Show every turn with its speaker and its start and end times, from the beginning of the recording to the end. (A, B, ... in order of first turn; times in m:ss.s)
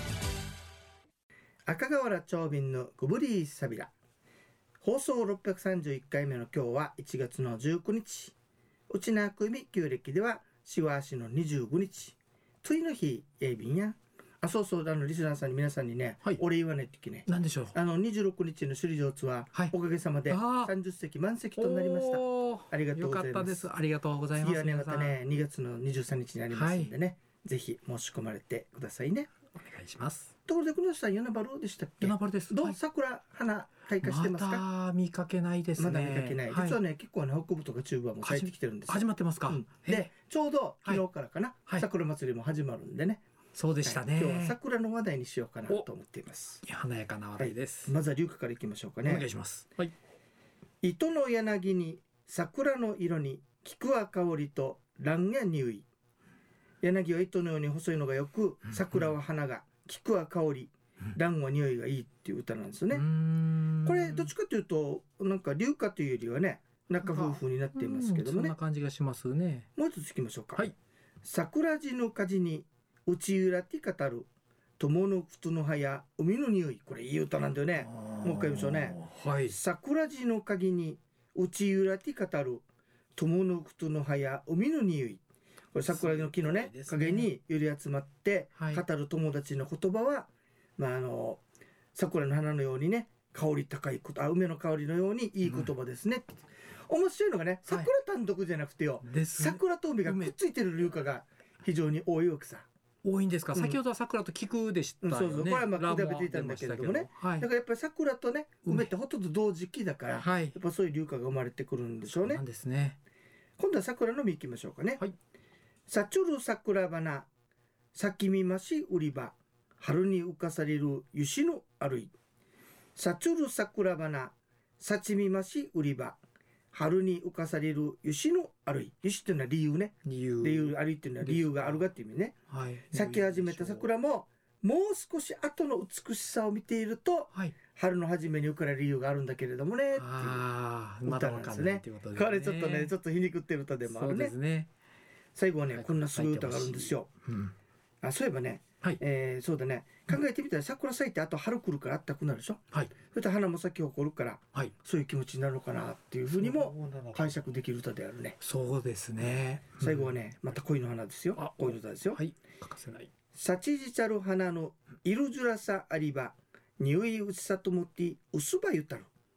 0:01.7-0:03.9 A
0:04.8-0:08.4 A
0:08.9-0:23.7 A
0:17.3-0:17.8 B
0:20.3-0:20.7 B
0:21.6-0:25.2 B
0:24.4-0:29.3 A
0:26.5-0:26.9 B
0:29.6-0:30.3 B
0:30.4-0:34.7 A
0:32.0-0:32.8 B
0:34.0-0:36.8 B
0:35.8-0:43.2 A
0:38.2-0:40.1 B
0:43.6-0:44.6 B
0:43.8-0:46.6 A
0:46.6-0:47.9 B
0:47.4-0:49.2 A
0:49.0-0:49.9 B
0:50.8-0:55.8 A
0:56.8-1:03.0 A
1:02.9-1:04.3 B
1:03.8-1:08.5 A
1:07.0-1:09.7 B
1:09.8-1:10.7 A
1:11.2-1:14.3 A
1:14.8-1:22.6 A
1:17.8-1:19.6 B
1:23.2-1:25.2 A
1:25.7-1:31.4 A
1:25.9-1:27.3 B
1:28.6-1:28.8 B
1:32.0-1:42.7 A
1:35.4-1:35.7 B
1:39.0-1:40.3 B
1:43.0-1:47.5 B
1:43.5-1:43.8 A
1:45.0-1:52.4 A
1:50.2-1:50.6 B
1:52.1-1:53.0 B
1:53.6-1:55.0 A
1:55.9-1:57.3 A
1:57.9-2:02.1 A
2:03.0-2:06.2 A
2:06.7-2:12.3 A
2:10.0-2:11.8 B
2:12.5-2:13.9 B
2:12.9-2:20.4 A
2:19.9-2:22.9 B
2:21.0-2:24.3 A
2:23.8-2:24.7 B
2:25.3-2:27.1 A
2:25.7-2:27.5 B
2:28.0-2:38.4 A
2:36.4-2:37.4 B
2:38.4-2:40.2 B
2:39.8-2:42.2 A
2:41.4-2:43.1 B
2:43.3-2:49.1 A